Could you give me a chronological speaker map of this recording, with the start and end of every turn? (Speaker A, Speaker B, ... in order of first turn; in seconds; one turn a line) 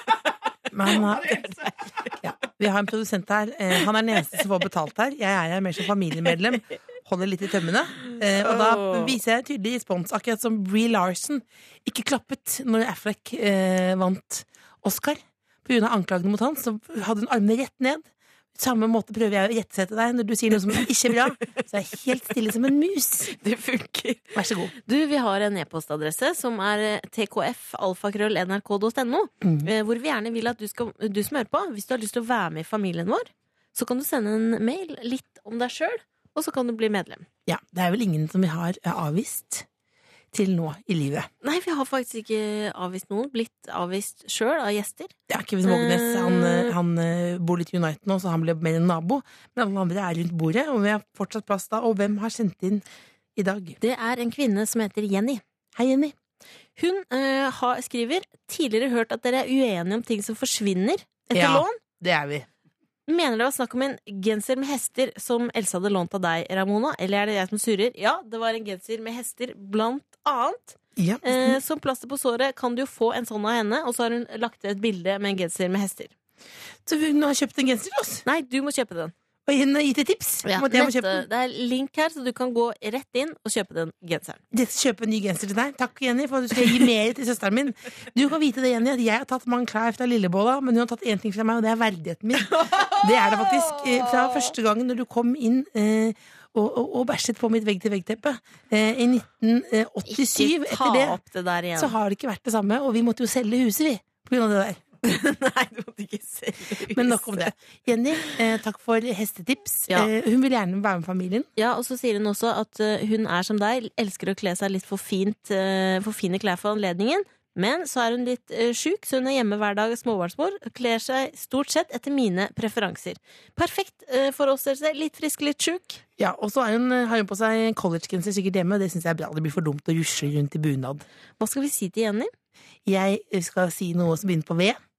Speaker A: 0.7-1.5
Speaker B: 0.9-2.1
Speaker A: 2.2-23.3
Speaker B: 8.3-9.2
Speaker B: 23.3-37.2
Speaker A: 24.3-24.7
Speaker A: 29.4-29.7
Speaker A: 37.5-39.7
Speaker A: 40.3-41.3
Speaker B: 41.4-45.1
Speaker A: 45.3-52.8
Speaker B: 45.6-46.7
Speaker A: 53.4-53.8
Speaker B: 53.8-55.4
Speaker A: 55.7-56.1
Speaker B: 56.8-61.8
Speaker A: 61.3-62.5
Speaker B: 63.1-76.1
Speaker A: 71.0-71.6
Speaker A: 76.8-78.2
Speaker B: 78.2-79.1
Speaker A: 79.5-81.2
Speaker B: 80.4-84.4
Speaker A: 84.5-101.2
Speaker B: 92.4-94.5
Speaker B: 100.1-101.9
Speaker A: 101.7-104.8
Speaker B: 105.0-107.5
Speaker A: 106.8-111.5
Speaker B: 111.6-126.0
Speaker A: 126.2-131.0
Speaker B: 131.4-132.3
Speaker A: 132.8-134.8